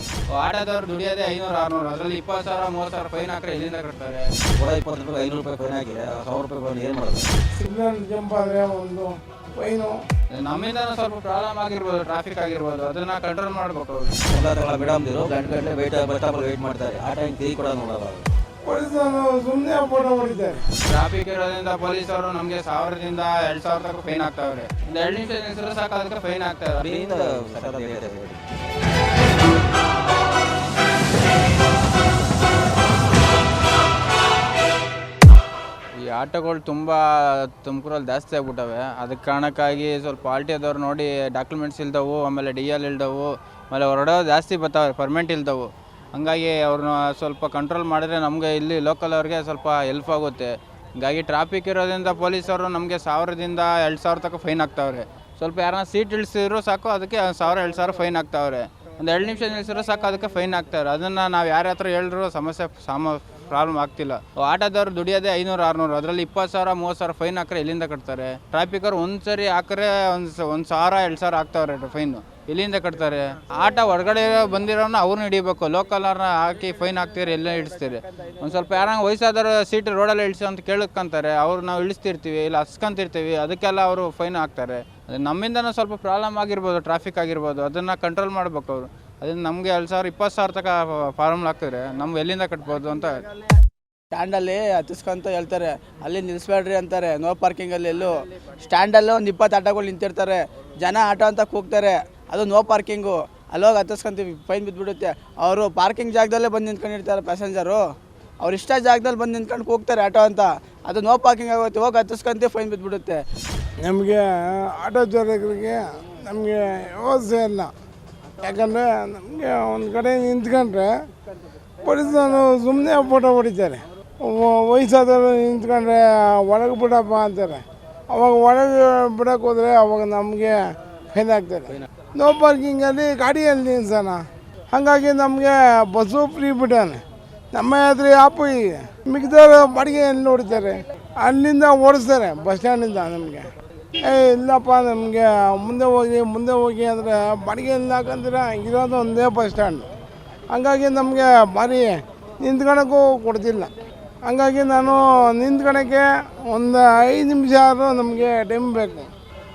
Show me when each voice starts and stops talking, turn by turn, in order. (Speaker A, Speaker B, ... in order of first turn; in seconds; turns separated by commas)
Speaker A: 0.3-4.3, Speaker B: 4.5-7.3, Speaker C: 7.6-10.0, Speaker A: 10.3-14.2, Speaker B: 14.3-18.2, Speaker C: 18.6-20.6, Speaker A: 20.9-27.1, Speaker B: 26.8-28.4, Speaker A: 35.9-93.2, Speaker D: 94.1-107.8, Speaker D: 108.4-113.2, Speaker C: 113.8-117.7, Speaker C: 118.4-120.9, Speaker C: 121.8-130.6, Speaker C: 131.1-137.0, Speaker C: 137.5-143.5, Speaker C: 144.1-149.9, Speaker C: 150.5-153.7, Speaker C: 154.3-159.1